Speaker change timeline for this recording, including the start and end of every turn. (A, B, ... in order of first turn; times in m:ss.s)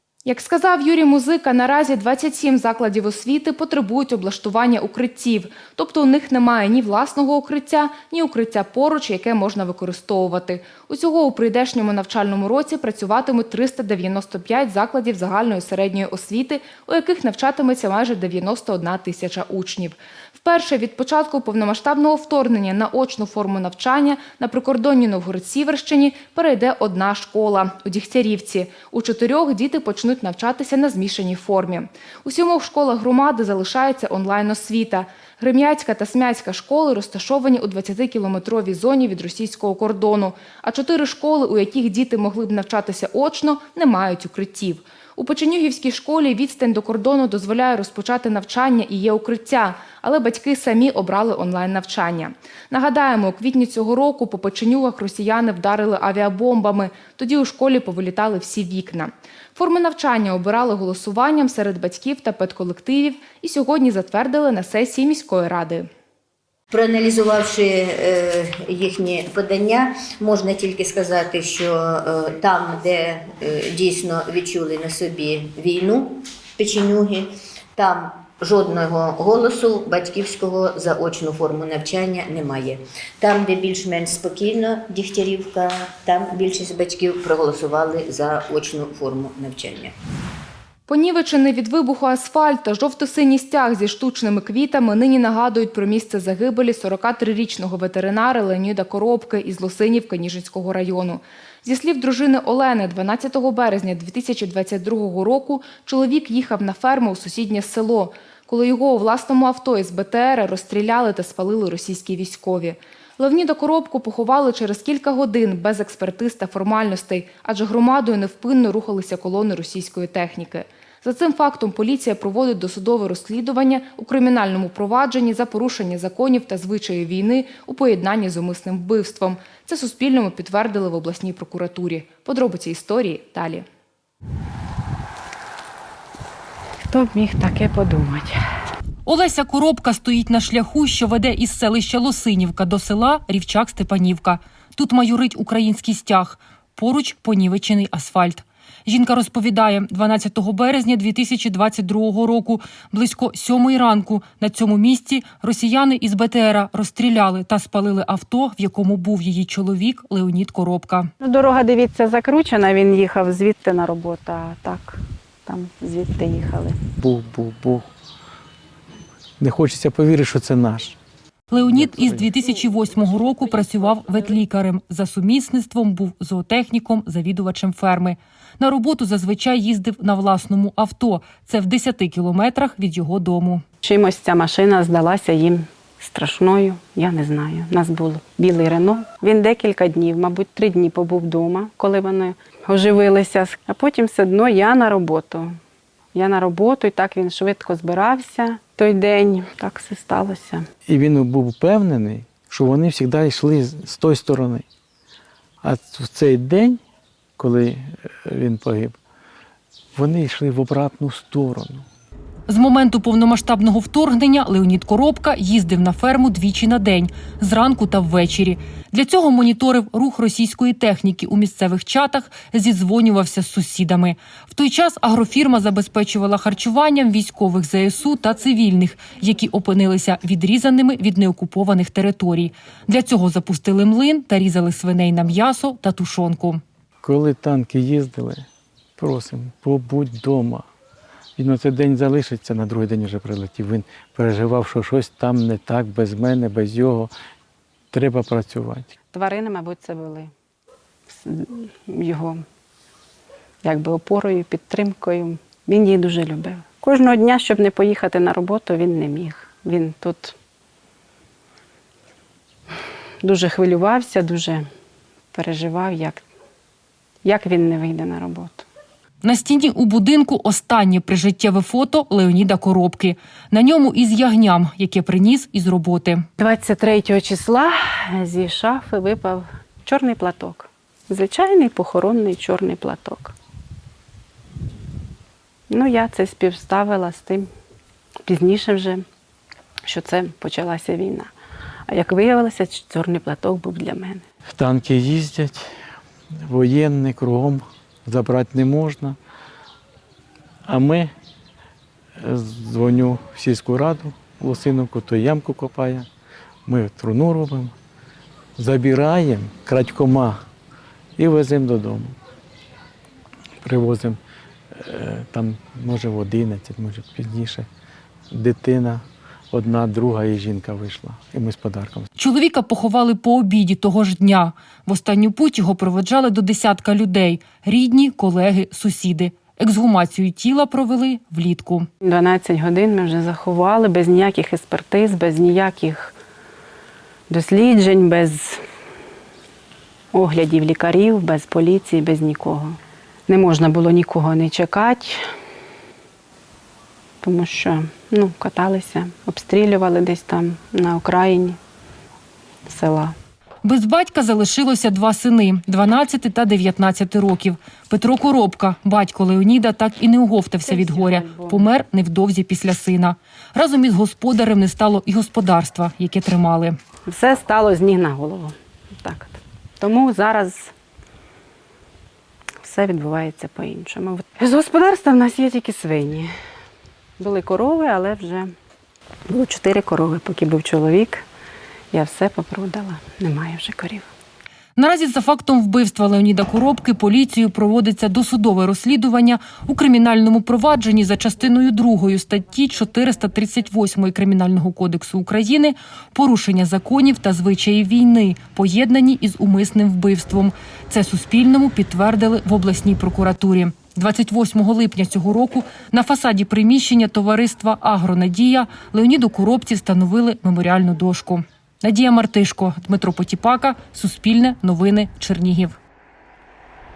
0:00.2-1:05.9 A
1:06.7-1:29.9 B
1:30.9-2:13.6 A
2:16.9-2:18.4 C
2:19.0-2:41.1 D
2:41.2-2:46.8 C
2:47.0-2:47.9 E
2:49.4-2:51.0 E
2:51.5-3:03.6 D
2:51.6-2:52.3 E
3:03.8-3:15.6 C
3:16.1-3:20.6 C
3:20.9-3:24.6 E
3:25.6-3:26.8 E
3:27.4-3:29.0 E
3:29.9-3:31.8 E
3:32.5-3:56.6 D
3:57.0-3:58.4 E
3:59.0-4:00.6 E
4:01.4-4:07.1 E
4:07.9-4:08.9 E
4:09.1-4:10.3 C
4:11.1-4:12.4 C
4:13.6-4:20.3 C
4:23.2-4:24.6 C
4:25.3-4:26.2 C
4:27.2-4:28.6 C
4:29.2-4:36.2 D
4:36.4-4:43.3 C
4:45.7-4:47.5 C
4:48.3-4:49.0 C
4:49.9-4:51.3 C
4:51.9-4:54.2 C
4:54.5-4:55.6 E
4:56.5-4:59.2 E
5:00.7-5:01.1 E
5:02.2-5:06.1 E
5:06.6-5:07.7 E
5:08.6-5:10.4 E
5:11.2-5:12.2 E
5:13.6-5:14.2 E
5:14.7-5:17.7 E
5:18.3-5:22.1 E
5:22.2-5:31.9 D
5:32.0-5:36.2 C
5:37.3-5:38.6 C
5:40.1-5:42.8 C
5:43.3-5:45.2 C
5:47.2-5:51.6 C
5:52.6-5:53.1 C
5:53.6-6:06.8 D
6:00.6-6:01.7 C
6:07.1-6:10.7 C
6:12.6-6:16.3 C
6:17.2-6:18.5 C
6:19.3-6:21.2 C
6:21.9-6:24.1 C
6:24.8-6:55.8 D